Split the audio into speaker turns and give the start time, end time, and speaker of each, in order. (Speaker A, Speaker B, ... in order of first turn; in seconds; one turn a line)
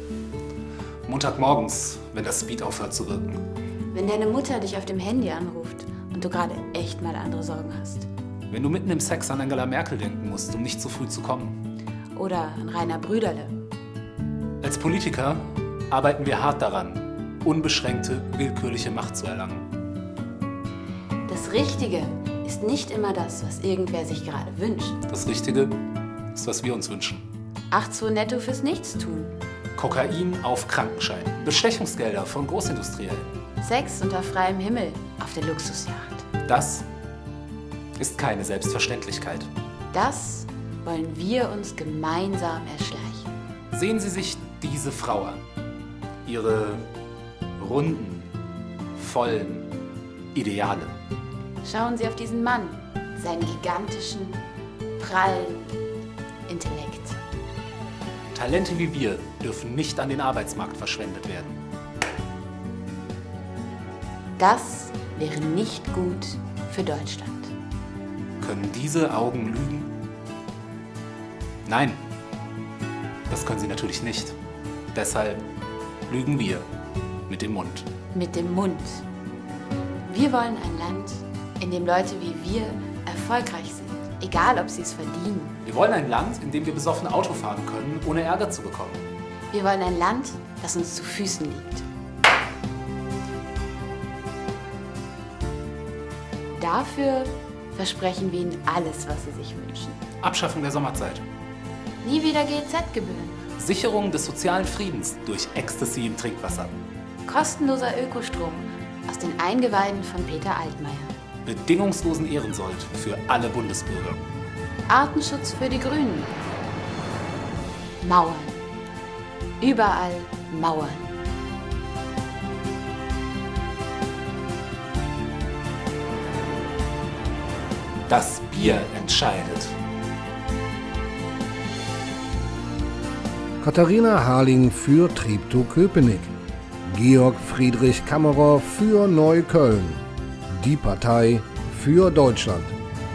Speaker A: 1.1-3.4
Speaker B: 3.9-8.1
Speaker A: 8.5-11.6
Speaker B: 12.1-13.5
Speaker A: 14.6-19.7
Speaker B: 21.3-25.0
Speaker A: 25.1-25.8
Speaker A: 26.3-27.2
Speaker B: 27.7-29.3
Speaker A: 29.8-33.3
Speaker B: 33.6-36.3
Speaker A: 36.5-36.9
Speaker A: 38.0-39.5
Speaker B: 39.9-43.3
Speaker A: 43.7-45.4
Speaker A: 46.2-46.9
Speaker A: 47.6-48.3
Speaker A: 49.0-49.7
Speaker A: 50.3-50.9
Speaker B: 51.6-54.4
Speaker B: 55.0-55.8
Speaker B: 56.5-57.2
Speaker A: 58.3-61.6
Speaker B: 64.4-67.5
Speaker A: 68.4-69.9
Speaker A: 71.7-72.0
Speaker A: 73.3-74.3
Speaker A: 74.9-75.5
Speaker A: 76.1-76.7
Speaker A: 77.3-77.9
Speaker B: 78.1-79.0
Speaker B: 80.1-85.6
Speaker A: 85.6-89.0
Speaker B: 89.5-91.8
Speaker B: 96.5-100.0
Speaker A: 100.2-101.2
Speaker B: 102.0-103.4
Speaker A: 103.6-106.8
Speaker B: 107.2-111.1
Speaker A: 111.4-114.2
Speaker B: 114.9-116.3
Speaker B: 118.0-118.6
Speaker B: 119.6-121.1
Speaker A: 128.1-129.7
Speaker C: 133.6-136.3
Speaker C: 136.8-142.7